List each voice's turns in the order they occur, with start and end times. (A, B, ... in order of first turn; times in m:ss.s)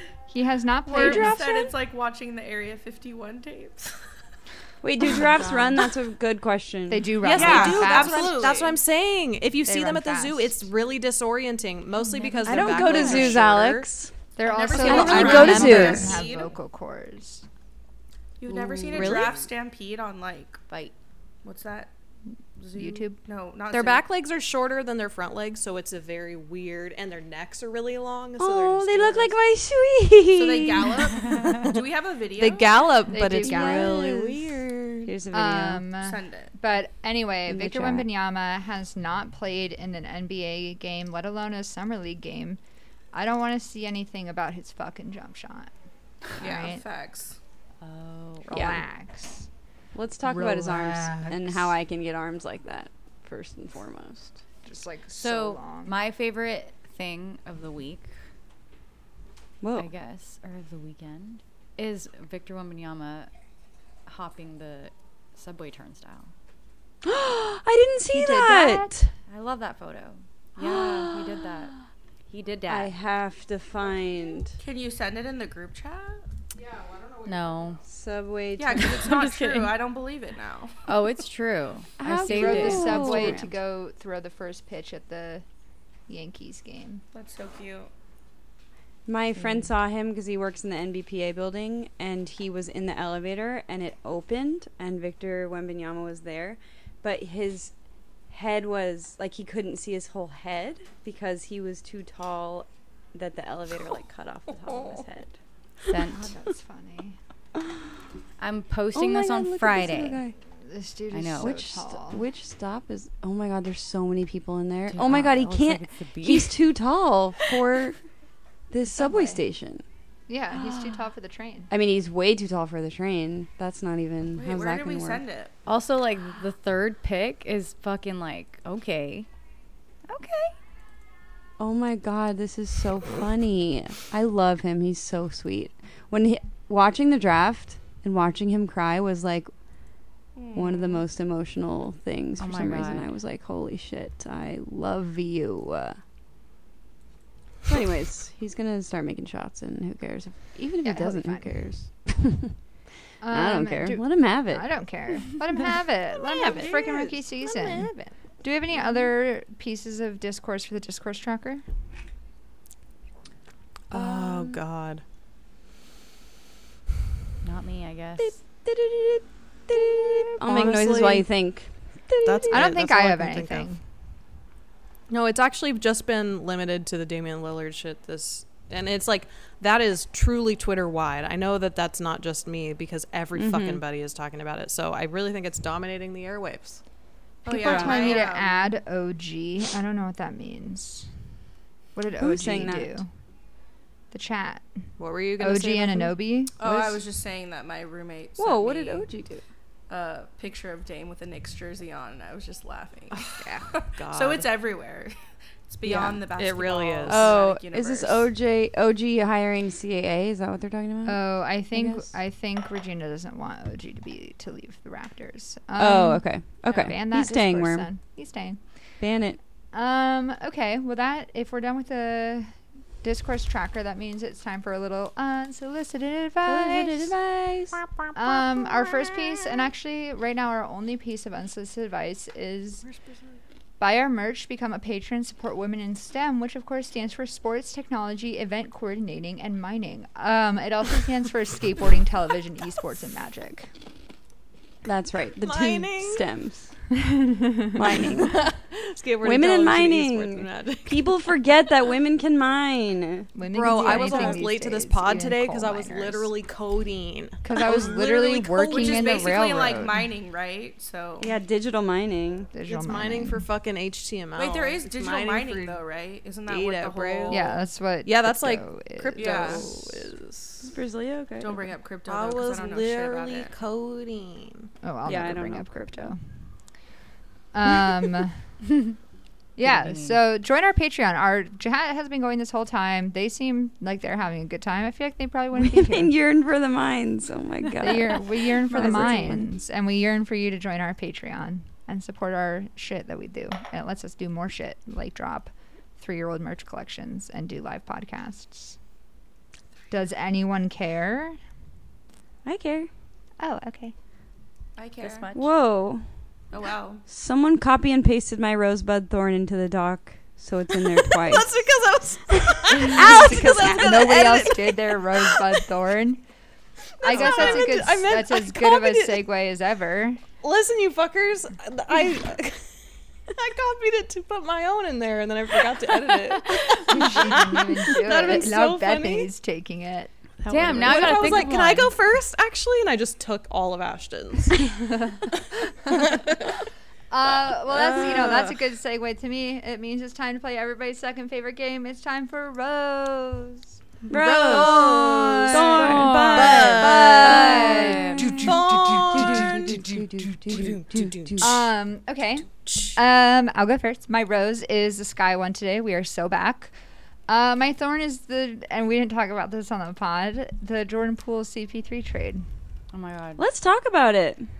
0:00.3-0:01.4 A
0:00.9-0:01.7 B
0:00.9-0:04.1 C
0:04.8-0:07.7 B
0:05.1-0:05.7 C
0:06.9-0:08.5 A
0:07.2-0:13.9 D
0:07.3-0:08.8 C
0:09.6-0:10.6 A
0:12.2-0:13.4 E
0:12.4-0:14.1 B
0:14.4-0:17.4 A
0:14.4-0:16.5 C
0:14.7-0:16.2 B
0:14.8-0:16.1 D
0:18.4-0:20.6 C
0:18.5-0:19.4 B
0:18.9-0:19.3 D
0:20.7-0:20.9 E
0:21.4-0:21.9 C
0:22.6-0:24.0 C
0:22.7-0:23.2 A
0:23.7-0:29.4 D
0:28.4-0:31.4 B
0:30.3-0:32.9 C
0:32.4-0:35.1 D
0:33.1-0:34.0 A
0:33.4-0:35.8 B
0:35.3-0:42.6 A
0:36.0-0:36.5 C
0:37.5-0:38.1 B
0:43.1-0:45.7 A
0:46.4-0:46.8 A
0:46.4-0:47.4 C
0:47.8-0:48.6 E
0:48.5-0:49.5 A
0:48.5-0:48.8 B
0:49.9-0:54.4 B
0:50.2-0:51.7 A
0:54.6-0:56.0 A
0:55.1-0:58.1 E
0:59.6-0:59.9 B
0:59.8-1:03.3 E
1:04.0-1:06.3 E
1:07.0-1:09.1 B
1:08.1-1:09.0 A
1:09.3-1:11.7 E
1:10.6-1:11.8 B
1:12.3-1:12.9 E
1:12.7-1:14.6 B
1:14.6-1:16.2 C
1:17.2-1:17.8 E
1:17.8-1:19.2 B
1:18.6-1:20.9 C
1:19.0-1:19.7 E
1:20.8-1:23.4 E
1:22.0-1:23.4 B
1:22.2-1:25.4 A
1:26.1-1:27.0 A
1:27.1-1:27.9 C
1:29.1-1:37.7 B
1:29.4-1:29.7 E
1:38.3-1:45.4 B
1:44.6-1:45.0 C
1:45.9-1:46.3 E
1:46.1-1:47.2 A
1:48.4-1:50.2 E
1:48.9-1:50.4 B
1:50.6-1:52.2 A
1:51.1-1:51.6 E
1:51.4-1:58.0 B
1:54.9-1:56.6 E
1:58.7-1:59.8 B
1:58.9-1:59.4 A
2:00.3-2:01.7 A
2:01.7-2:05.2 B
2:04.4-2:05.5 C
2:05.6-2:09.3 E
2:10.1-2:10.5 B
2:11.6-2:19.5 B
2:20.3-2:21.0 C
2:20.5-2:26.0 B
2:22.4-2:23.1 E
2:27.6-2:32.5 B
2:30.8-2:31.6 A
2:33.2-2:41.6 A
2:33.3-2:34.7 B
2:36.3-2:36.9 D
2:36.4-2:38.0 B
2:43.9-2:45.0 D
2:43.9-2:44.6 B
2:47.4-2:48.4 E
2:48.2-2:52.6 B
2:50.4-2:51.2 D
2:52.2-2:53.7 D
2:52.5-2:53.8 A
2:55.1-3:06.8 D
3:03.4-3:03.8 B
3:07.4-3:08.7 C
3:07.4-3:11.2 A
3:07.6-3:08.2 B
3:07.8-3:08.2 D
3:11.9-3:13.1 A
3:12.2-3:13.0 B
3:14.1-3:14.7 A
3:15.0-3:16.1 D
3:15.4-3:16.6 A
3:16.6-3:19.1 C
3:18.4-3:19.4 B
3:19.9-3:28.3 C
3:23.1-3:24.5 D
3:25.8-3:26.2 B
3:26.4-3:27.4 D
3:27.0-3:32.1 B
3:31.0-3:38.6 A
3:35.8-3:37.9 B
3:39.0-3:39.4 B
3:39.7-3:47.1 A
3:46.4-3:49.1 B
3:48.1-3:52.8 A
3:53.8-4:03.7 A
4:04.8-4:06.7 B
4:05.4-4:06.2 D
4:07.0-4:07.8 A
4:07.7-4:08.4 B
4:08.2-4:11.3 D
4:09.2-4:14.4 B
4:13.3-4:16.3 A
4:13.5-4:19.5 D
4:17.4-4:20.0 A
4:18.7-4:21.3 C
4:21.2-4:22.5 B
4:22.5-4:23.5 A
4:22.7-4:25.8 D
4:24.3-4:27.6 C
4:26.5-4:30.7 D
4:27.3-4:30.1 A
4:29.1-4:29.7 C
4:30.6-4:31.7 B
4:31.4-4:33.5 C
4:32.0-4:34.7 D
4:34.8-4:36.2 A
4:35.0-4:36.1 B
4:37.5-4:38.4 A
4:39.6-4:46.1 A
4:39.7-4:40.2 E
4:45.5-4:49.5 B
4:47.8-4:58.8 A
4:59.9-5:01.4 A
5:02.4-5:02.9 B
5:03.4-5:03.9 A
5:04.8-5:05.3 C
5:05.0-5:05.5 E
5:05.3-5:06.1 B
5:06.5-5:07.0 C
5:07.1-5:11.5 B
5:11.1-5:15.6 D
5:12.7-5:13.7 B
5:12.8-5:16.2 A
5:17.0-5:19.2 D
5:17.0-5:20.2 A
5:20.4-5:22.8 D
5:23.3-5:29.3 D
5:26.8-5:31.2 A
5:30.5-5:32.0 E
5:30.5-5:34.8 D
5:35.8-5:36.6 D
5:37.1-5:43.8 A
5:44.1-5:48.6 B
5:44.1-5:51.6 D
5:45.5-5:49.8 A
5:45.6-5:46.8 E
5:47.6-5:48.0 E
5:49.1-5:51.5 B
5:51.4-5:56.7 A
5:52.6-5:52.9 D
5:57.3-6:02.4 A
6:02.9-6:03.4 E
6:03.4-6:04.5 B